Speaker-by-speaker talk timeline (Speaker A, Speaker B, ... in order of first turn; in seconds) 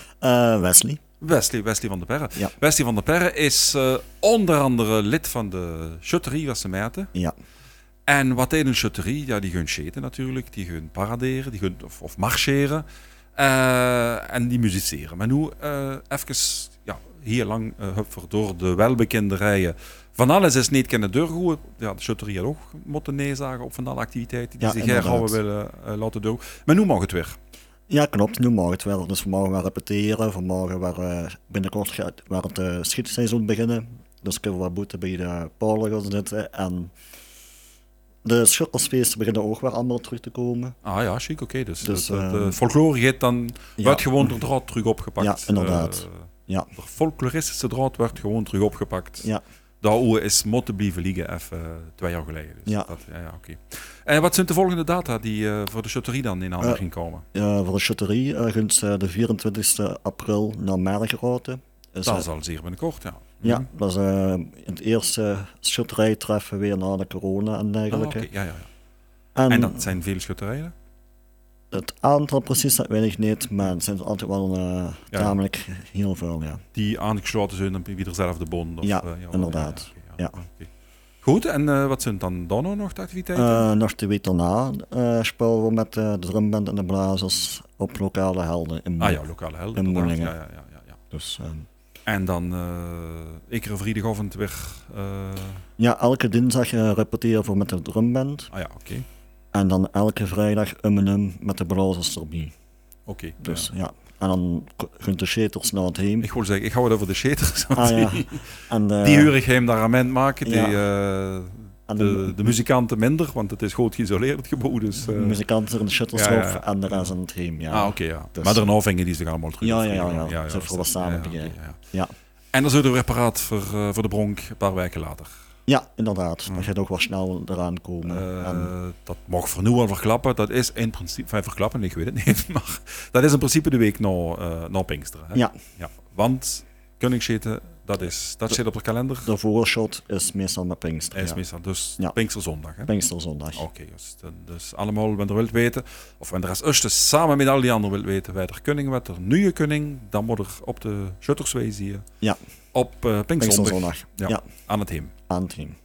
Speaker A: 0.2-1.0, 24.6-25.4, 27.9-36.9, 38.2-40.7, 41.8-42.6, 43.8-44.4, 45.2-46.7, 52.7-52.9, 57.3-62.2, 63.4-68.3, 69.3-69.9, 71.7-76.6, 78.8-80.3, 83.3-89.2, 89.7-90.3, 91.1-91.7, 95.8-98.5, 99.5-102.5, 103.4-106.3, 107.7-109.3, 110.4-110.8, 111.9-112.6, 115.0-118.7, 119.6-122.1, 125.7-128.7, 139.2-141.4, 142.9-143.7, 153.4-154.4, 155.3-155.7
Speaker B: 1.2-7.1, 8.1-27.4, 40.8-49.3, 49.8-57.2, 62.0-63.7, 67.9-68.7, 69.5-70.7, 76.7-80.7, 81.2-83.7, 89.0-91.0, 92.0-95.6, 98.5-99.0, 103.0-103.7, 106.2-115.4, 116.1-117.1, 117.7-121.8, 122.5-125.3, 128.1-139.3, 141.1-142.9, 143.5-152.1, 152.7-155.1